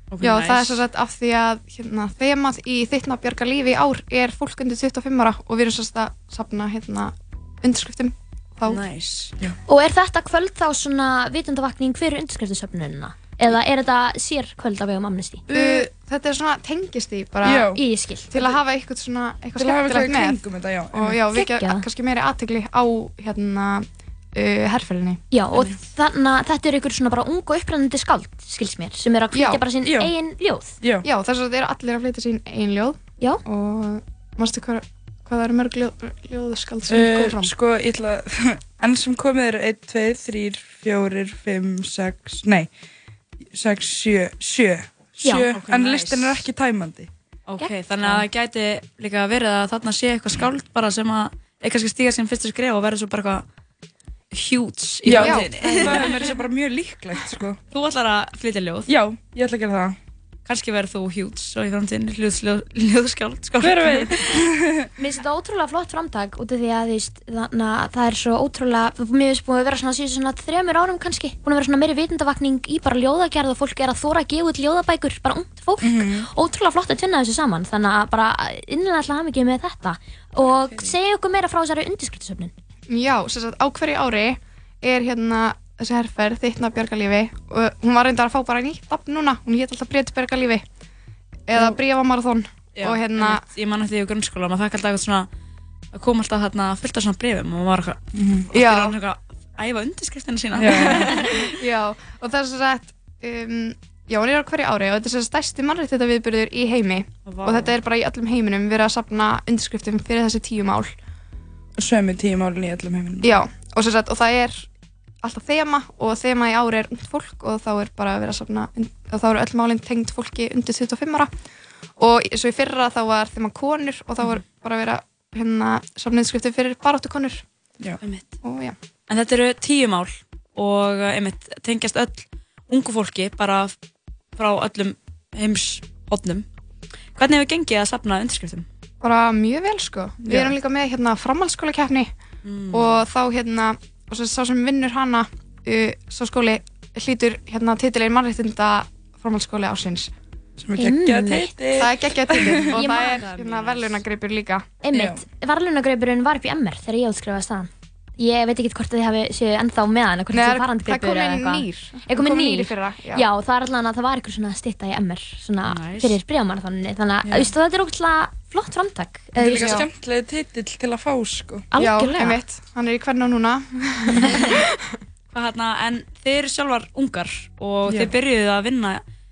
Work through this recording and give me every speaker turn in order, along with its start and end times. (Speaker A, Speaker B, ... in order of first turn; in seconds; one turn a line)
Speaker A: 0.1-0.8
Speaker B: 0.2-8.8
Speaker A: 8.7-9.3
Speaker C: 9.7-15.5
Speaker D: 15.5-15.9
Speaker B: 15.5-17.7
Speaker D: 17.4-17.8
Speaker C: 17.7-18.3
Speaker B: 18.3-20.4
Speaker D: 19.6-21.2
Speaker B: 20.9-25.2
Speaker C: 21.3-21.8
Speaker C: 25.3-30.8
Speaker B: 29.3-29.6
Speaker D: 29.8-30.1
Speaker B: 31.0-37.5
Speaker D: 36.9-42.7
Speaker D: 43.5-47.1
Speaker A: 45.5-46.5
Speaker A: 47.5-53.5
Speaker A: 54.3-56.3
Speaker D: 55.0-57.6
Speaker B: 55.2-56.1
Speaker A: 57.7-58.9
Speaker D: 58.9-60.0
Speaker A: 60.5-64.4
Speaker D: 63.6-64.6
Speaker C: 65.0-82.5
Speaker D: 75.8-76.3
Speaker D: 80.5-80.9
Speaker B: 82.9-90.6
Speaker B: 91.5-93.4
Speaker A: 92.8-95.3
Speaker A: 95.9-101.4
Speaker D: 98.2-98.5
Speaker B: 98.5-99.0
Speaker D: 100.6-101.0
Speaker B: 100.7-110.9
Speaker A: 107.3-107.8
Speaker D: 111.8-113.3
Speaker B: 113.2-114.7
Speaker B: 115.2-121.3
Speaker B: 122.0-127.4
Speaker B: 128.4-128.8
Speaker A: 129.1-133.7
Speaker A: 134.4-136.4
Speaker A: 137.2-138.7
Speaker B: 139.0-142.1
Speaker D: 140.3-140.5
Speaker A: 142.4-143.0
Speaker B: 142.7-150.1
Speaker D: 150.6-152.8
Speaker C: 150.8-151.5
Speaker B: 151.8-154.7
Speaker A: 152.7-154.0
Speaker C: 154.8-169.8
Speaker D: 154.9-155.2
Speaker B: 160.3-163.2
Speaker A: 165.7-166.2
Speaker B: 169.4-169.9
Speaker D: 169.4-171.7
Speaker C: 171.7-172.4
Speaker B: 171.8-174.6
Speaker A: 175.3-179.0